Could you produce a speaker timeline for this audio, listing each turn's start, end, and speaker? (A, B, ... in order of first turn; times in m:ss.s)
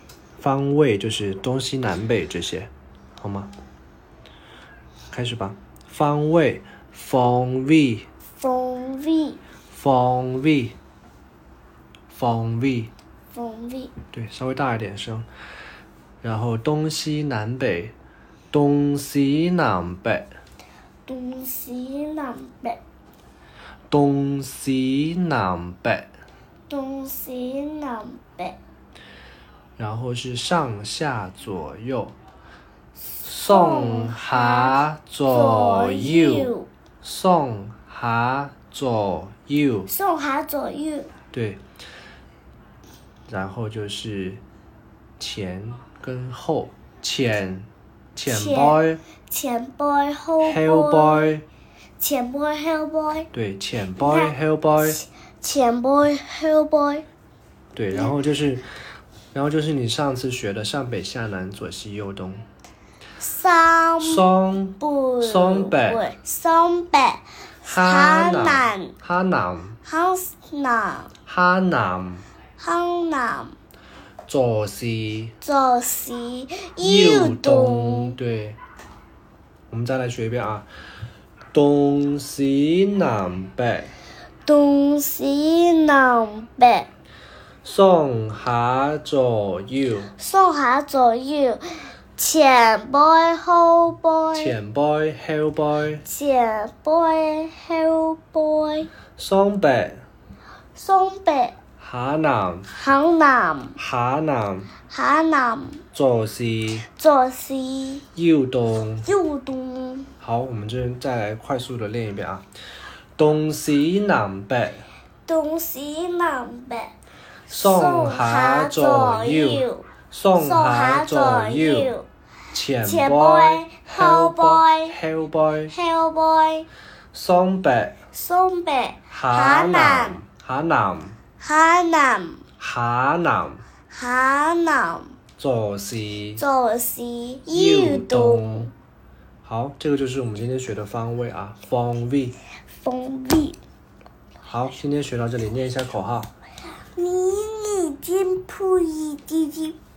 0:00.4-0:03.5 A
0:05.1-0:08.1 A
0:08.4-0:09.4 B
0:09.7-0:10.8 A
0:12.1-0:12.9 A
0:13.3-0:13.9 B
0:14.1-0:15.2 A
0:16.2-0:17.9 A
0:18.5-0:20.3 A
0:21.0-0:22.8 B
0:23.9-0:26.1 A
0:26.7-0:28.6 B
0:29.8-0:32.1 A
0:33.2-0:39.9 A
0:33.2-0:36.7 B
0:39.9-0:41.1 B
0:41.3-0:41.6 A
0:43.3-0:44.4 A
0:45.2-0:49.0 A
0:48.2-0:51.3 B
0:50.4-0:51.4 A
0:52.0-0:53.3 B
0:53.3-0:55.0 A
0:54.0-0:57.0 B
0:57.7-0:58.7 A
0:59.3-1:02.4 A
1:03.2-1:04.2 B
1:04.0-1:06.0 A
1:04.8-1:08.9 B
1:07.6-1:09.8 A
1:09.8-1:11.1 B
1:11.2-1:12.2 A
1:12.6-1:13.6 B
1:14.3-1:15.3 A
1:15.4-1:18.2 B
1:16.8-1:18.6 A
1:19.7-1:20.7 A
1:21.5-1:23.9 A
1:24.4-1:26.9 B
1:27.6-1:30.1 A
1:30.2-1:34.6 B
1:34.3-1:36.0 A
1:36.0-1:38.9 B
1:39.2-1:40.0 A
1:40.8-1:41.6 B
1:41.8-1:42.7 A
1:42.7-1:43.8 B
1:43.8-1:44.7 A
1:44.9-1:45.8 B
1:45.9-1:46.9 A
1:46.8-1:48.0 B
1:48.1-1:49.1 A
1:49.0-1:50.1 B
1:50.2-1:52.4 A
1:53.2-1:54.8 A
1:55.2-1:56.9 B
1:57.5-2:02.1 B
1:57.5-2:01.9 A
2:02.5-2:05.7 A
2:02.8-2:05.0 B
2:05.7-2:06.7 B
2:07.1-2:08.0 A
2:08.1-2:10.2 B
2:09.1-2:11.2 A
2:11.4-2:12.4 B
2:12.6-2:13.6 A
2:13.9-2:15.1 B
2:15.4-2:16.4 A
2:16.4-2:18.7 B
2:17.5-2:18.7 A
2:19.4-2:22.4 A
2:22.7-2:23.6 B
2:24.4-2:26.3 A
2:26.9-2:29.8 B